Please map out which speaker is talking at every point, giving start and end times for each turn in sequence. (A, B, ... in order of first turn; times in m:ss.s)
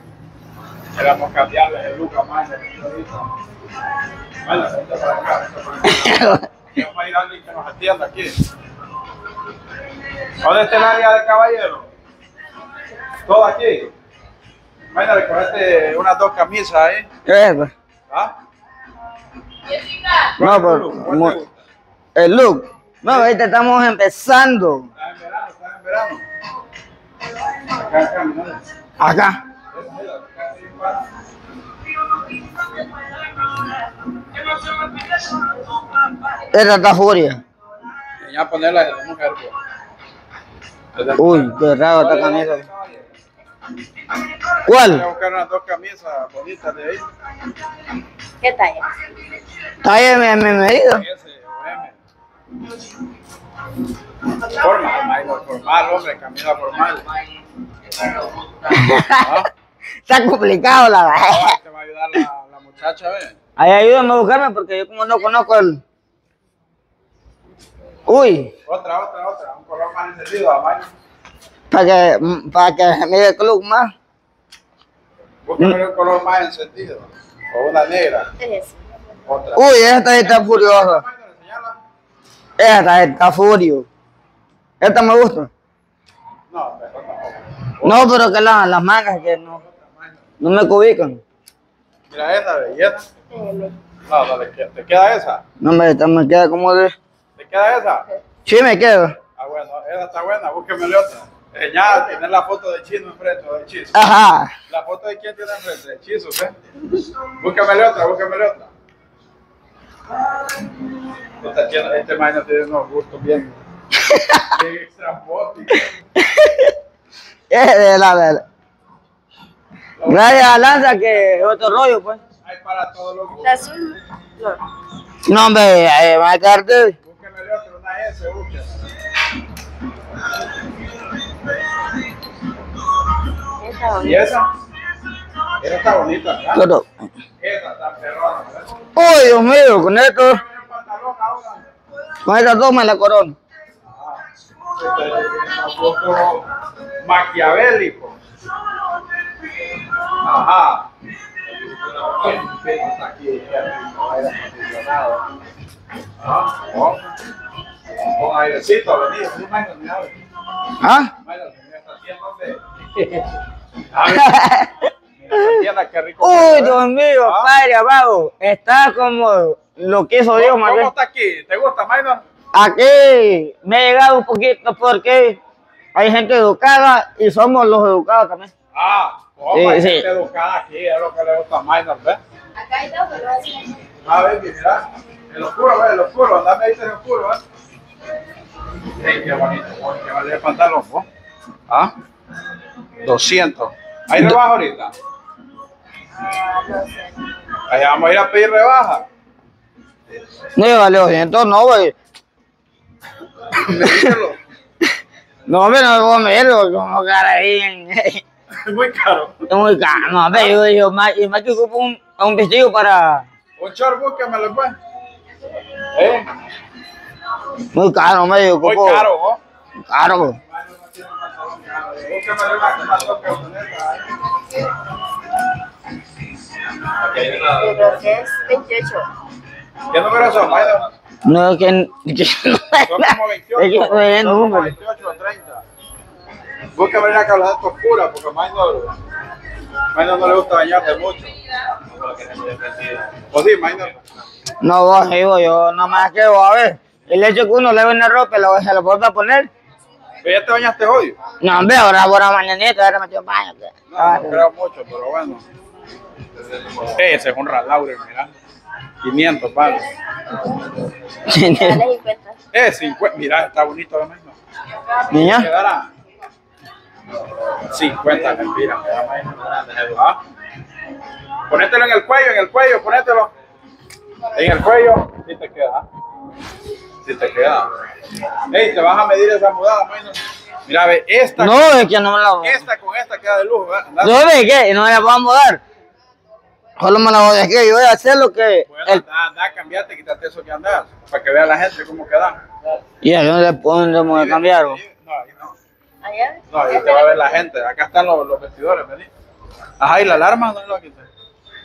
0:01.0-0:03.3 A
0:04.4-0:08.4 A
0:05.8-0:06.4 B
0:10.4-0:11.9 A
0:13.2-0:13.9 A
0:14.9-0:17.0 A
0:17.3-0:17.7 B
0:20.4-0:21.5 A
0:20.4-0:21.4 B
0:22.2-0:24.9 B
0:23.1-0:23.3 A
0:25.0-0:26.2 A
0:27.7-0:28.6 A
0:29.0-0:29.4 B
0:29.7-0:31.0 A
0:36.4-0:37.4 B
0:38.2-0:39.6 A
0:41.0-0:43.1 A
0:41.2-0:42.7 B
0:44.6-0:45.0 B
0:44.7-0:47.0 A
0:48.4-0:48.9 C
0:49.8-0:51.0 B
0:50.9-0:52.0 A
0:54.4-0:57.0 A
0:58.6-0:59.4 B
0:59.2-0:59.5 A
1:00.1-1:01.6 B
1:01.2-1:03.4 A
1:03.6-1:05.8 B
1:08.1-1:08.5 B
1:08.7-1:10.9 A
1:11.7-1:13.9 B
1:15.5-1:18.3 A
1:18.4-1:18.7 C
1:19.3-1:21.8 A
1:19.6-1:21.0 B
1:22.6-1:23.9 B
1:24.8-1:25.5 B
1:26.5-1:28.2 A
1:27.8-1:29.6 B
1:29.2-1:30.2 A
1:30.4-1:31.2 B
1:32.1-1:33.1 A
1:33.3-1:33.8 C
1:34.1-1:35.4 A
1:35.6-1:36.9 B
1:37.4-1:38.1 A
1:38.4-1:39.2 B
1:39.4-1:44.0 A
1:43.9-1:44.5 B
1:44.7-1:48.7 A
1:51.4-1:53.6 A
1:54.0-1:54.5 B
1:54.5-1:55.9 A
1:56.2-1:56.8 B
1:57.5-1:58.4 B
2:00.0-2:00.5 A
2:00.1-2:02.2 B
2:02.4-2:03.6 A
2:03.4-2:04.6 C
2:05.2-2:07.0 B
2:07.0-2:08.9 A
2:13.6-2:14.2 C
2:14.0-2:14.5 A
2:15.6-2:16.6 A
2:16.6-2:16.9 B
2:17.4-2:18.8 A
2:19.0-2:20.4 B
2:20.2-2:21.7 A
2:22.2-2:23.4 B
2:23.8-2:26.4 A
2:27.0-2:28.2 A
2:30.2-2:30.9 A
2:31.8-2:35.3 A
2:36.2-2:37.1 A
2:38.1-2:40.2 A
2:40.8-2:41.1 B
2:41.2-2:43.3 A
2:43.9-2:44.4 A
2:44.1-2:45.6 B
2:45.2-2:47.5 A
2:46.2-2:50.9 B
2:50.3-2:52.2 A
2:52.5-2:55.4 B
2:56.0-2:58.5 B
2:58.7-3:02.2 A
2:59.5-3:00.1 B
3:02.6-3:03.8 C
3:04.0-3:07.4 A
3:08.9-3:11.1 A
3:13.0-3:14.9 A
3:16.2-3:17.4 C
3:17.7-3:19.0 A
3:20.6-3:21.9 B
3:23.6-3:24.4 A
3:23.7-3:24.1 B
3:25.5-3:28.2 B
3:28.6-3:29.5 A
3:29.5-3:33.2 B
3:30.3-3:30.6 A
3:33.6-3:34.7 A
3:35.9-3:36.3 A
3:37.7-3:39.1 B
3:38.6-3:39.4 A
3:39.9-3:40.4 B
3:40.5-3:44.1 A
3:47.0-3:47.6 A
3:47.4-3:49.1 C
3:49.9-3:50.9 A
3:51.2-3:54.8 B
3:52.8-3:55.6 A
3:56.8-3:59.0 A
3:59.9-4:01.3 A
4:03.2-4:04.0 A
4:04.6-4:09.5 B
4:10.2-4:11.2 A
4:11.4-4:14.4 B
4:13.9-4:15.4 A
4:16.8-4:18.3 A
4:19.0-4:19.9 A
4:21.3-4:21.8 B
4:21.5-4:22.4 C
4:22.5-4:24.4 A
4:25.1-4:25.5 B
4:25.1-4:25.9 A
4:27.7-4:30.2 A
4:31.5-4:33.3 A
4:34.3-4:35.8 A
4:37.0-4:37.7 A
4:38.5-4:41.7 A
4:41.4-4:42.6 B
4:42.4-4:44.2 A
4:44.0-4:45.6 B
4:46.8-4:49.0 B
4:48.7-4:52.4 A
4:53.0-4:54.8 B
4:54.1-4:55.5 A
4:56.0-4:56.4 C
4:56.5-4:59.1 A
4:59.8-5:01.1 A